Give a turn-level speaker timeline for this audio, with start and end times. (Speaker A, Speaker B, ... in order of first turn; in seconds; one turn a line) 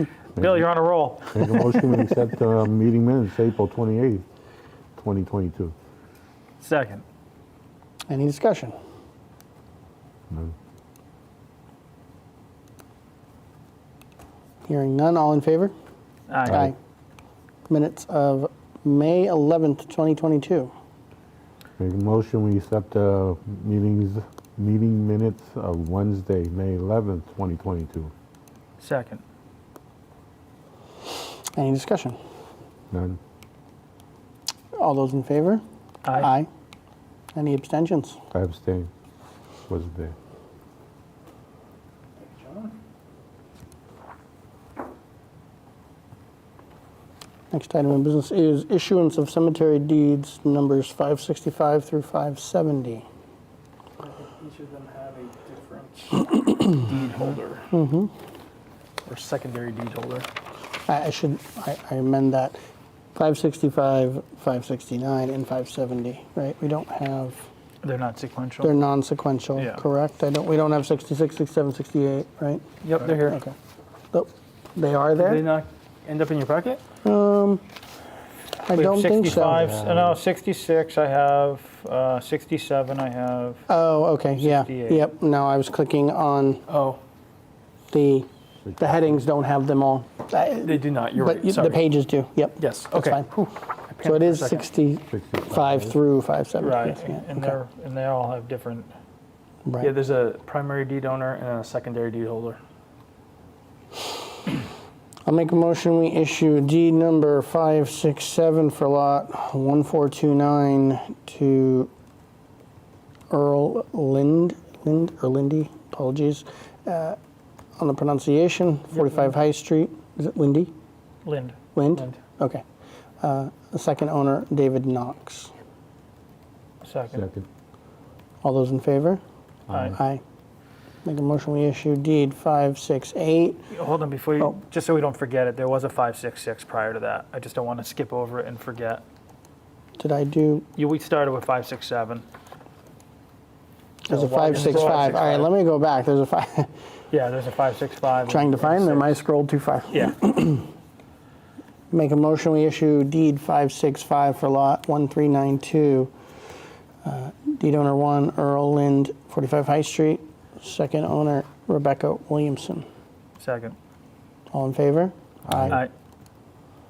Speaker A: 0.3-1.7
Speaker B: 0.4-0.7
Speaker B: 1.3-4.2
Speaker B: 5.0-5.7
Speaker A: 6.6-7.0
Speaker C: 8.1-8.8
Speaker B: 10.3-10.6
Speaker C: 14.7-15.7
Speaker A: 16.3-16.7
Speaker C: 16.5-16.8
Speaker C: 17.7-20.7
Speaker B: 21.8-28.1
Speaker A: 28.8-29.2
Speaker C: 31.5-32.2
Speaker B: 32.9-33.2
Speaker C: 34.8-36.5
Speaker A: 36.0-36.3
Speaker C: 37.4-38.2
Speaker B: 38.3-38.9
Speaker B: 39.7-40.1
Speaker D: 42.2-42.8
Speaker C: 47.5-53.0
Speaker D: 54.0-57.7
Speaker A: 57.0-57.4
Speaker C: 57.7-58.1
Speaker D: 59.0-60.3
Speaker C: 60.9-62.6
Speaker C: 63.1-67.5
Speaker A: 67.8-68.8
Speaker C: 68.6-73.5
Speaker A: 69.6-69.8
Speaker A: 72.8-73.2
Speaker D: 72.9-73.4
Speaker C: 74.1-75.5
Speaker D: 75.2-76.8
Speaker C: 77.0-77.6
Speaker C: 78.7-79.7
Speaker A: 78.7-83.6
Speaker B: 79.2-80.2
Speaker C: 83.7-86.7
Speaker A: 84.4-85.1
Speaker D: 86.7-87.0
Speaker C: 87.9-93.3
Speaker D: 90.6-91.8
Speaker D: 92.6-94.7
Speaker C: 94.0-97.6
Speaker B: 95.1-96.0
Speaker A: 96.6-98.9
Speaker C: 99.7-99.9
Speaker D: 99.8-102.6
Speaker C: 105.3-111.9
Speaker C: 113.3-117.2
Speaker C: 117.8-120.7
Speaker D: 119.0-119.3
Speaker A: 121.2-121.6
Speaker C: 121.8-122.6
Speaker C: 123.2-125.5
Speaker A: 126.8-127.2
Speaker B: 127.1-127.5
Speaker C: 128.4-129.2
Speaker B: 129.7-130.0
Speaker A: 129.7-130.0
Speaker C: 129.8-130.2
Speaker C: 131.1-133.7
Speaker A: 133.7-139.0
Speaker C: 140.0-140.7
Speaker A: 140.8-142.2
Speaker C: 144.1-146.7
Speaker A: 144.1-145.5
Speaker D: 144.5-145.2
Speaker A: 147.1-149.2
Speaker C: 148.3-150.7
Speaker A: 149.9-150.2
Speaker C: 151.9-156.1
Speaker C: 157.0-162.9
Speaker A: 163.4-163.8
Speaker C: 164.5-165.7
Speaker B: 165.5-165.8